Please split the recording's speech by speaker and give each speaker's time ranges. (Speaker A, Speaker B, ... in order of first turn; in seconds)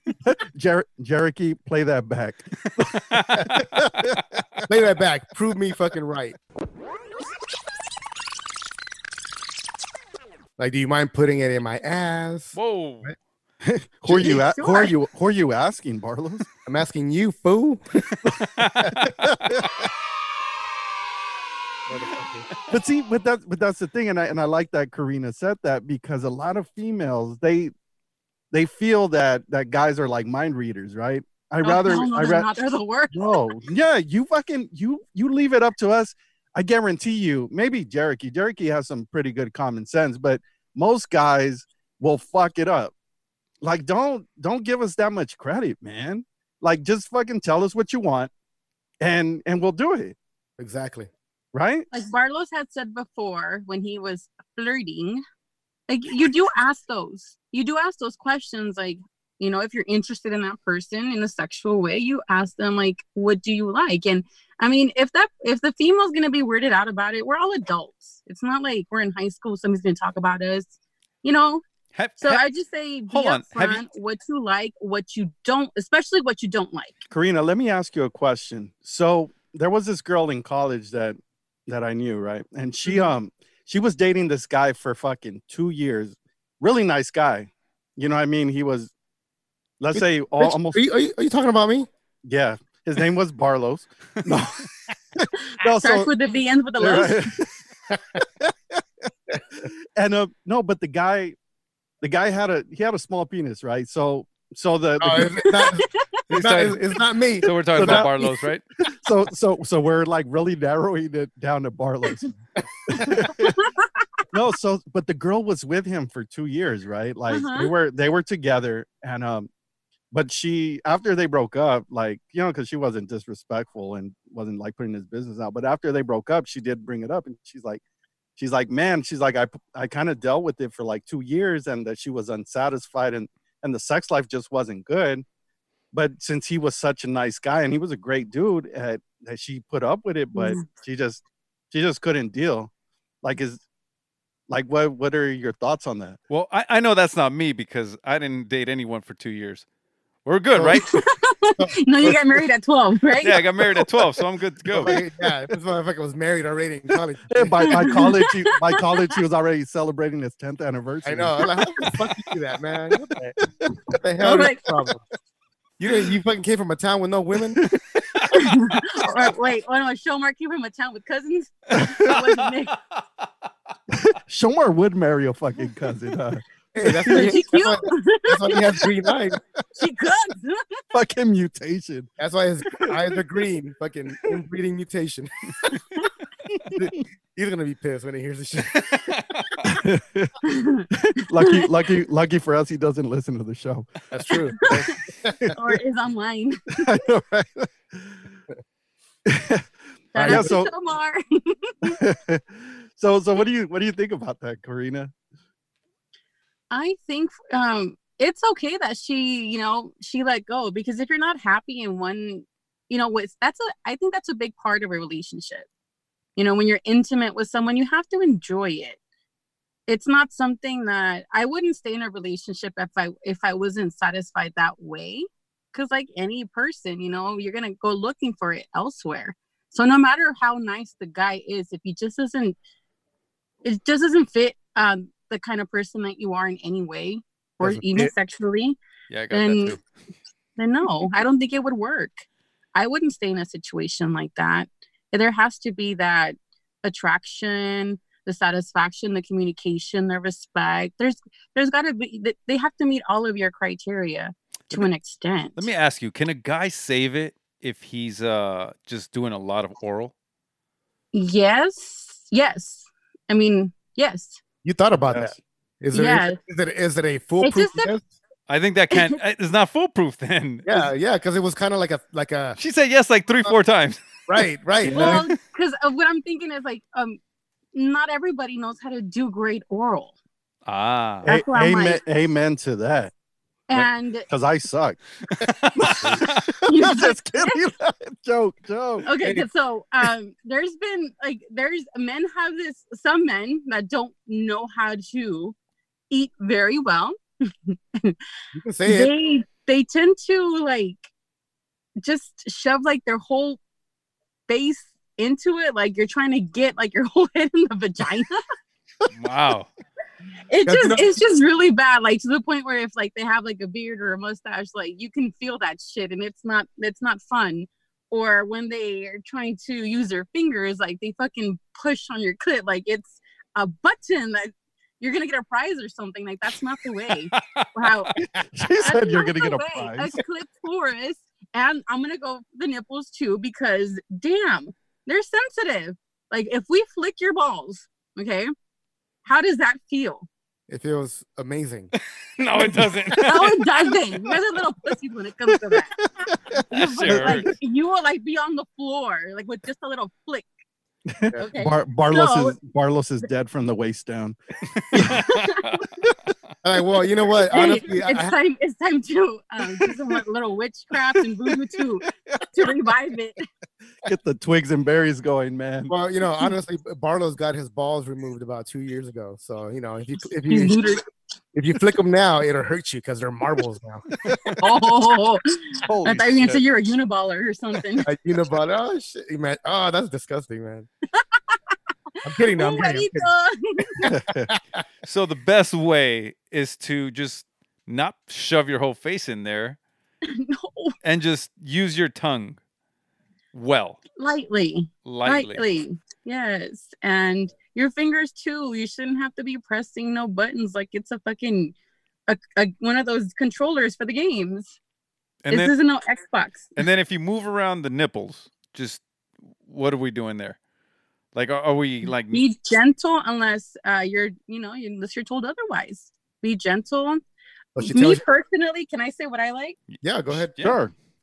Speaker A: 0.2-4.2, 13.6-16.5, 19.0-19.7, 22.7-27.7, 28.5-32.5, 33.1-42.9, 43.6-48.3, 49.0-50.2, 51.5-51.9, 77.1-88.9, 89.8-90.8, 92.2-96.1, 96.8-97.6, 99.6-101.4, 102.0-105.5, 107.8-108.2, 109.0-113.6, 114.3-119.5, 120.1-127.8, 128.4-135.2, 135.9-142.7, 143.2-143.6, 144.5-146.2, 157.3-161.9, 167.6-168.2, 171.7-172.2, 173.9-177.3, 180.9-182.1, 186.5-186.9, 189.6-193.9, 196.8-198.2, 199.3-199.7, 200.2-200.7, 201.8-205.1, 265.1-265.4, 274.9-275.2, 281.2-283.1, 283.7-289.1, 328.2-330.2, 346.3-347.5, 351.1-354.4, 354.9-355.4, 364.0-365.9, 374.3-374.6, 375.8-376.6, 384.1-384.5, 420.6-420.9
Speaker B: 2.9-3.8, 12.6-13.1, 18.2-19.1, 71.9-72.4, 73.1-73.8, 106.3-106.8, 107.4-108.6, 146.3-149.7, 150.3-150.9, 153.2-154.9, 188.9-189.5, 239.1-239.8, 255.6-260.1, 268.5-270.9, 272.6-274.0, 280.7-281.3, 285.4-286.4, 309.1-309.7, 327.3-327.7, 342.4-343.9, 346.7-347.5, 354.8-355.8, 385.0-389.8, 391.0-392.6, 393.5-394.0, 395.1-395.6, 405.4-405.7, 406.8-409.0, 409.6-410.6, 411.3-412.4
Speaker C: 4.7-6.4, 10.6-13.2, 14.1-14.4, 16.6-18.0, 21.9-22.5, 50.6-51.1, 89.9-91.9, 97.9-98.2, 105.0-108.3, 150.6-150.8, 151.6-152.4, 154.7-158.0, 161.0-165.0, 165.8-167.6, 176.7-179.4, 182.2-185.3, 186.8-189.2, 194.1-195.5, 200.2-200.5, 237.6-238.1, 264.6-268.1, 270.7-272.6, 274.3-275.2, 298.5-299.1, 310.7-311.1, 340.7-341.9, 356.6-358.4, 365.9-370.8, 371.5-374.1, 378.1-380.9, 382.2-383.3, 384.0-384.8, 417.8-418.2, 420.0-420.6
Speaker D: 14.2-14.9, 31.6-33.4, 51.9-55.2, 55.9-71.6, 72.2-77.0, 95.5-97.2, 113.5-114.0, 117.3-117.7, 140.3-140.6, 150.8-153.4, 157.7-159.1, 164.2-164.6, 168.3-172.8, 177.1-178.6, 179.8-180.8, 190.4-191.7, 195.5-196.9, 200.1-202.0, 206.7-215.7, 216.4-219.0, 219.9-232.6, 233.7-238.8, 239.3-239.8, 240.6-255.7, 261.1-264.4, 265.9-266.4, 267.4-267.9, 274.9-277.2, 277.7-280.1, 281.2-282.0, 283.7-284.3, 286.7-287.6, 289.1-295.6, 296.1-297.2, 297.7-298.2, 298.9-301.1, 302.0-303.6, 304.5-308.4, 310.5-328.1, 328.8-338.5, 339.2-340.3, 343.2-345.9, 346.7-350.5, 351.4-352.6, 355.1-355.6, 357.5-363.4, 370.5-371.0, 374.6-375.4, 376.0-378.1, 381.2-381.6, 382.5-384.1, 390.2-390.9, 394.2-401.8, 402.3-404.8, 405.5-406.8, 412.3-417.2, 417.8-419.8